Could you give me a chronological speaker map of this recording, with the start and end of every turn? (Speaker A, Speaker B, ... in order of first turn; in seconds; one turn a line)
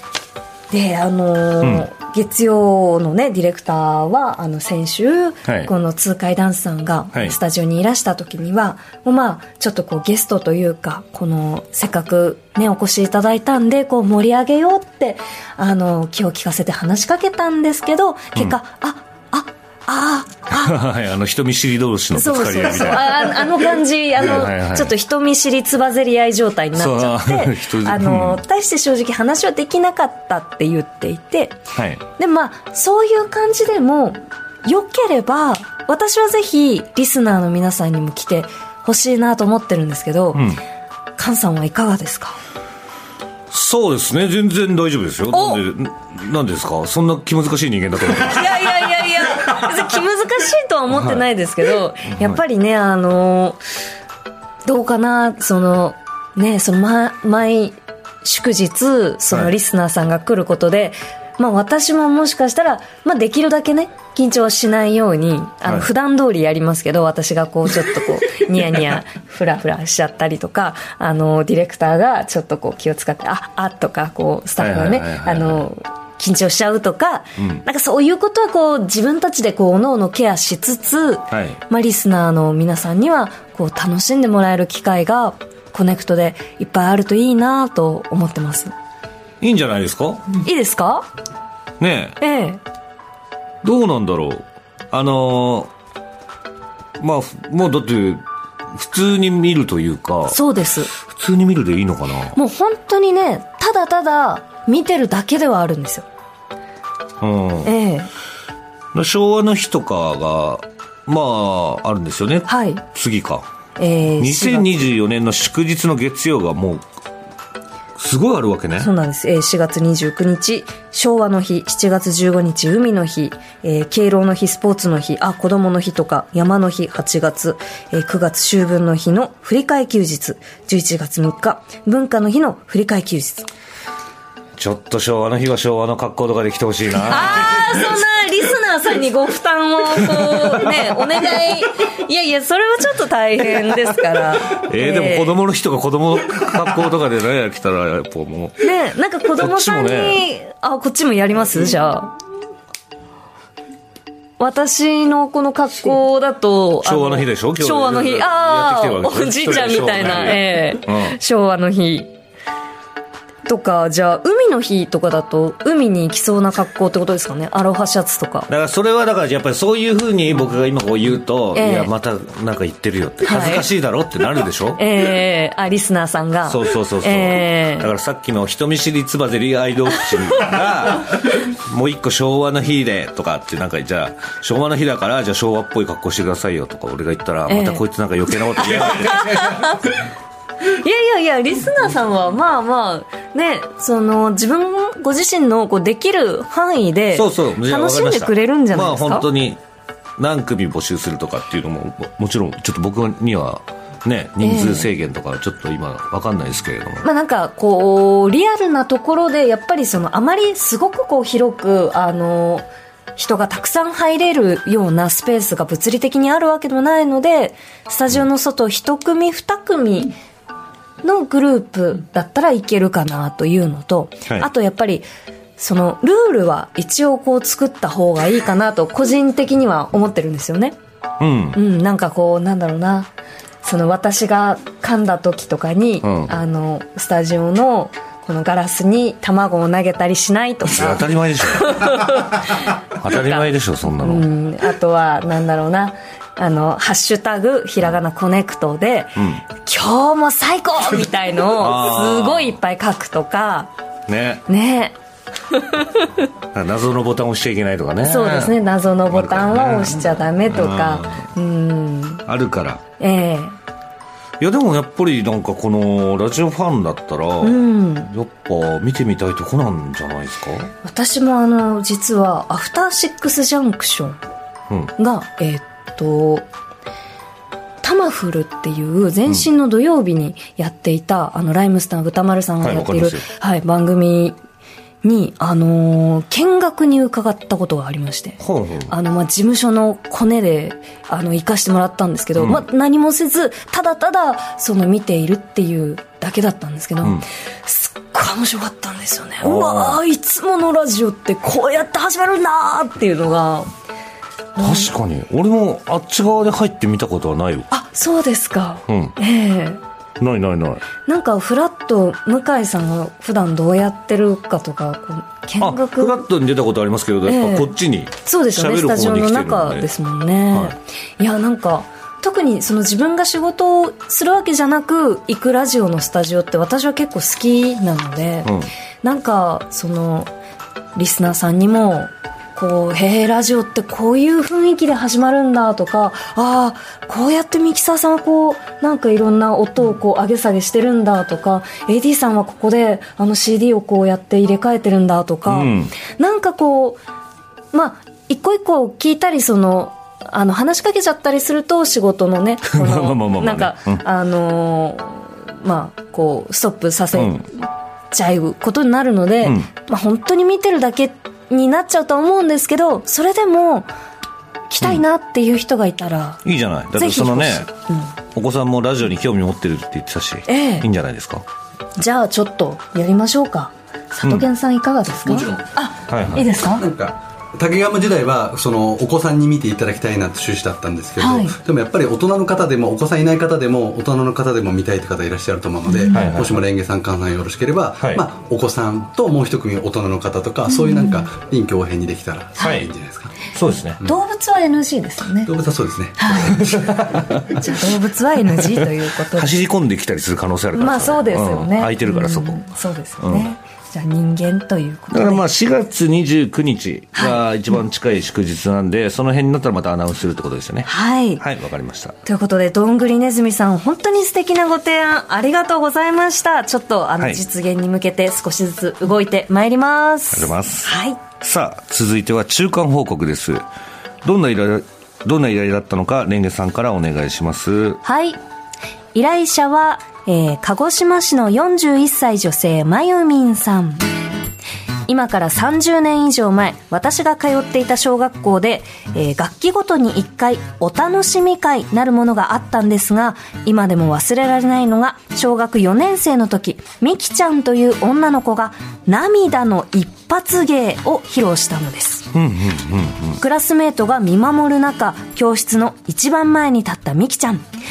Speaker A: 0.7-20.8
Speaker B: 1.6-1.9
Speaker B: 5.5-5.7
Speaker B: 20.5-23.5
Speaker A: 22.1-31.6
Speaker B: 24.2-24.9
Speaker B: 26.8-28.4
Speaker B: 31.7-32.0
Speaker A: 32.2-40.6
Speaker B: 40.4-40.6
Speaker A: 41.2-42.4
Speaker B: 43.5-48.6
Speaker A: 45.3-45.6
Speaker A: 48.2-53.6
Speaker B: 51.0-51.2
Speaker B: 52.1-52.4
Speaker A: 54.6-88.7
Speaker B: 74.6-75.7
Speaker B: 77.4-77.6
Speaker B: 81.3-81.6
Speaker B: 89.4-90.4
Speaker A: 90.4-91.1
Speaker B: 91.8-92.2
Speaker A: 92.2-92.6
Speaker B: 93.6-95.7
Speaker B: 97.0-100.4
Speaker A: 100.3-100.9
Speaker B: 101.0-102.4
Speaker A: 102.3-106.1
Speaker B: 107.2-107.7
Speaker A: 107.6-108.1
Speaker B: 108.9-113.5
Speaker A: 112.5-112.8
Speaker A: 113.8-114.9
Speaker B: 114.2-116.9
Speaker B: 118.0-118.9
Speaker A: 118.8-133.5
Speaker B: 134.6-137.9
Speaker A: 137.0-145.4
Speaker B: 144.5-148.6
Speaker A: 148.6-152.1
Speaker B: 149.4-150.2
Speaker A: 154.4-162.1
Speaker B: 156.8-161.2
Speaker A: 163.5-168.5
Speaker B: 168.5-174.8
Speaker A: 171.5-171.9
Speaker A: 173.2-173.7
Speaker A: 174.8-177.9
Speaker B: 176.5-189.7
Speaker A: 187.5-187.8
Speaker A: 188.6-190.0
Speaker A: 190.6-199.3
Speaker B: 197.1-199.6
Speaker B: 200.2-207.1
Speaker A: 204.4-204.9
Speaker A: 207.0-220.1
Speaker A: 221.0-225.1
Speaker A: 225.6-230.8
Speaker B: 231.2-231.6
Speaker A: 231.5-233.1
Speaker A: 233.6-253.7
Speaker B: 236.0-236.3
Speaker B: 240.7-242.3
Speaker B: 242.9-244.3
Speaker B: 249.2-249.4
Speaker B: 251.6-252.6
Speaker B: 254.1-254.5
Speaker A: 254.5-255.0
Speaker A: 255.5-256.0
Speaker B: 256.5-261.3
Speaker A: 258.0-262.2
Speaker B: 262.3-262.8
Speaker A: 263.0-263.6
Speaker B: 264.4-270.7
Speaker A: 267.4-268.1
Speaker A: 270.8-274.2
Speaker A: 275.0-276.5
Speaker A: 277.8-284.4
Speaker B: 282.6-283.3
Speaker A: 285.0-303.7
Speaker B: 288.4-288.9
Speaker B: 292.4-292.6
Speaker B: 299.4-300.0
Speaker A: 304.6-304.9
Speaker B: 304.6-307.7
Speaker A: 307.7-309.8
Speaker B: 308.9-309.1
Speaker B: 310.2-310.8
Speaker A: 311.1-316.2
Speaker B: 315.6-319.9
Speaker A: 317.2-330.3
Speaker B: 328.4-328.7
Speaker A: 331.0-347.0
Speaker B: 345.5-345.9
Speaker A: 347.7-363.9
Speaker B: 352.7-354.0
Speaker B: 357.1-357.5
Speaker B: 359.4-359.7
Speaker A: 364.7-366.4
Speaker B: 366.4-367.7
Speaker A: 367.0-368.1
Speaker B: 368.3-371.4
Speaker A: 370.5-370.9
Speaker A: 372.0-376.9
Speaker B: 376.1-376.5
Speaker C: 376.7-393.4
Speaker A: 381.2-381.6
Speaker A: 385.9-386.3
Speaker B: 386.1-386.6
Speaker A: 390.7-391.2
Speaker B: 392.6-392.9
Speaker B: 393.5-394.0
Speaker A: 394.0-395.5
Speaker C: 395.5-397.3
Speaker A: 396.2-396.7
Speaker B: 396.6-397.6
Speaker A: 397.5-399.6
Speaker B: 399.4-402.6
Speaker A: 400.7-405.4
Speaker B: 403.2-403.5
Speaker B: 405.1-412.2
Speaker A: 407.1-407.4
Speaker A: 410.9-411.4
Speaker A: 412.2-421.2
Speaker B: 420.3-423.6
Speaker B: 424.2-428.0
Speaker A: 428.0-428.4
Speaker A: 429.1-434.1
Speaker A: 435.1-452.3
Speaker B: 452.3-453.4
Speaker A: 453.4-457.6